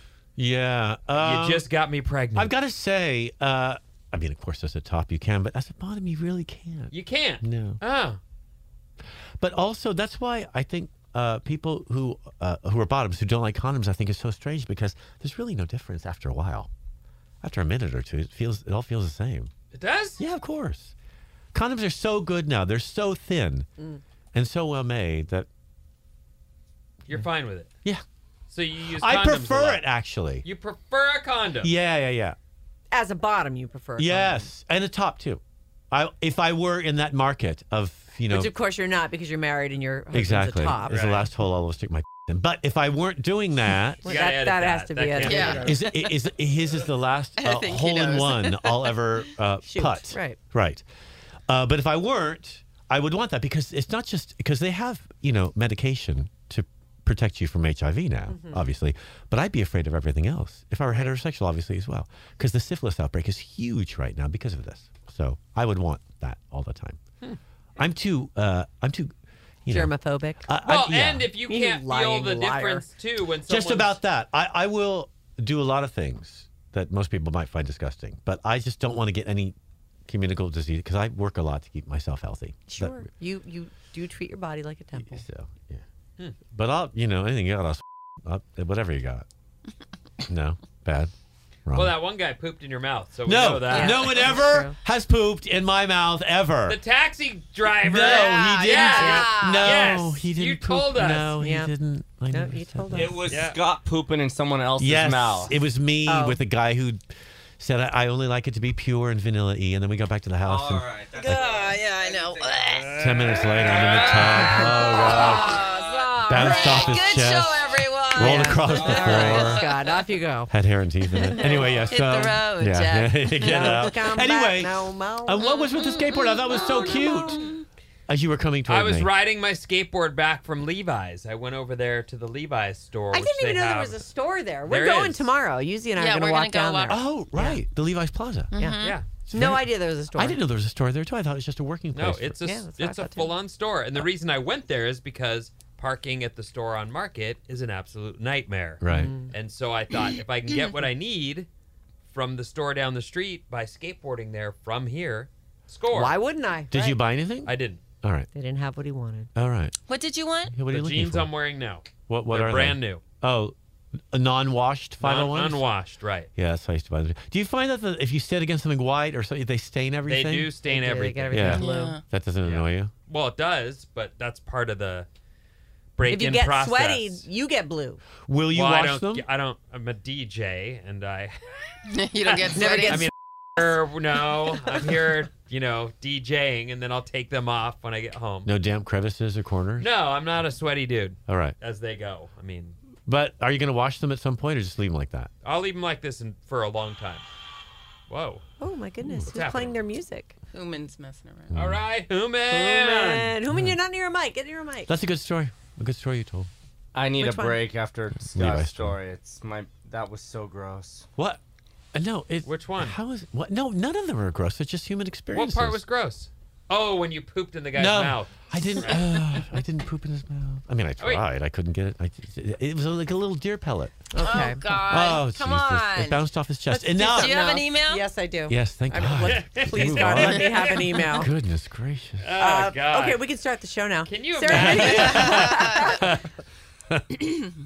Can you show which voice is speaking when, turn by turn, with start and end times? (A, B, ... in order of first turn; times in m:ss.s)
0:00.4-0:01.6 A
0:01.2-0:02.5 B
0:02.3-0:07.8 A
0:06.9-0:08.2 B
0:09.4-0:16.7 A
0:17.4-0:19.5 A
0:19.7-0:20.2 B
0:20.2-0:20.9 A
0:21.5-0:23.7 A
0:24.3-0:25.5 A
0:27.1-0:27.7 B
0:28.5-0:29.8 B
0:28.9-0:30.4 A
0:30.4-0:31.7 B
0:31.6-0:32.4 A
0:32.9-0:34.5 C
0:34.0-0:38.5 A
0:38.3-0:41.0 C
0:40.1-0:44.1 A
0:40.9-0:41.3 B
0:44.0-0:45.8 B
0:44.0-0:45.8 C
0:45.2-0:46.2 D
0:45.6-0:50.8 A
0:47.4-0:48.9 D
0:49.6-0:50.4 C
0:51.5-1:07.0 A
0:58.3-0:58.6 C
1:07.8-1:09.1 A
1:09.6-1:09.9 A
1:09.7-1:10.5 C
1:10.4-1:11.3 A
1:10.6-1:14.0 B
1:11.5-1:12.9 C
1:13.5-1:19.5 A
1:20.1-1:23.0 A
1:22.7-1:25.2 C
1:25.0-1:25.8 A
1:26.5-1:29.2 A
1:30.2-1:31.1 A
1:31.7-1:31.9 A
1:31.7-1:34.4 B
1:33.2-1:36.8 A
1:33.7-1:34.8 C
1:36.7-1:41.3 B
1:37.8-1:43.2 A
1:38.0-1:40.0 D
1:41.4-1:41.7 C
1:42.3-1:43.4 C
1:42.9-1:45.5 E
1:43.3-1:43.6 B
1:44.8-1:47.0 A
1:46.1-1:46.4 C
1:47.6-1:51.4 A
1:50.4-1:57.1 E
1:51.2-1:53.0 D
1:53.0-1:55.6 A
1:53.1-1:54.6 B
1:54.6-1:59.7 D
1:56.2-1:59.6 A
1:58.2-2:00.5 C
1:58.6-1:59.5 E
2:00.5-2:07.4 A
2:01.1-2:03.9 D
2:01.5-2:01.9 E
2:03.4-2:05.5 C
2:05.4-2:07.6 D
2:08.1-2:09.1 A
2:08.7-2:14.0 B
2:13.1-2:17.6 C
2:14.7-2:15.3 B
2:16.0-2:17.0 D
2:16.9-2:18.5 A
2:18.5-2:19.0 D
2:18.6-2:20.4 C
2:18.8-2:19.1 B
2:19.3-2:22.4 A
2:21.9-2:31.5 B
2:22.4-2:23.3 C
2:28.8-2:29.1 A
2:28.9-2:29.3 C
2:32.1-2:36.1 B
2:35.9-2:37.0 C
2:36.7-2:38.3 A
2:37.4-2:37.8 B
2:38.3-2:39.3 C
2:39.3-2:39.8 A
2:39.9-2:40.5 D
2:40.5-2:41.3 A
2:40.7-2:43.0 B
2:42.1-2:43.5 A
2:44.1-2:45.6 A
2:45.0-2:46.3 B
2:46.4-2:50.5 A
2:50.1-2:51.6 B
2:50.6-2:52.0 C
2:51.3-2:52.9 A
2:51.5-2:52.0 D
2:52.4-2:55.1 B
2:56.0-2:57.2 B
2:56.0-2:58.0 C
2:58.2-2:59.2 A
2:58.5-3:01.7 B
3:01.9-3:03.1 D
3:02.2-3:08.5 B
3:02.5-3:03.7 C
3:08.4-3:09.9 A
3:09.8-3:12.8 B
3:11.3-3:11.5 A
3:13.0-3:15.3 A
3:15.4-3:17.2 B
3:18.1-3:18.4 B
3:18.6-3:20.3 C
3:19.0-3:19.3 A
3:19.3-3:19.7 B
3:20.5-3:21.5 D
3:21.5-3:21.8 A
3:21.5-3:23.4 B
3:22.5-3:24.9 C
3:23.5-3:23.8 A
3:24.9-3:26.5 A
3:26.9-3:31.1 E
3:27.1-3:27.6 C
3:28.3-3:29.0 A
3:31.9-3:35.8 A
3:32.4-3:33.0 B
3:35.3-3:39.4 B
3:37.7-3:47.4 A
3:41.0-3:41.2 B
3:44.1-3:44.6 C
3:44.2-3:46.2 D
3:46.7-3:51.3 C
3:47.1-3:48.1 D
3:48.5-3:52.3 A
3:49.2-3:51.0 B
3:52.2-3:53.2 B
3:52.4-3:56.1 C
3:54.0-3:56.3 B
3:54.5-3:55.4 A
3:54.8-3:55.9 D
3:57.0-3:57.5 B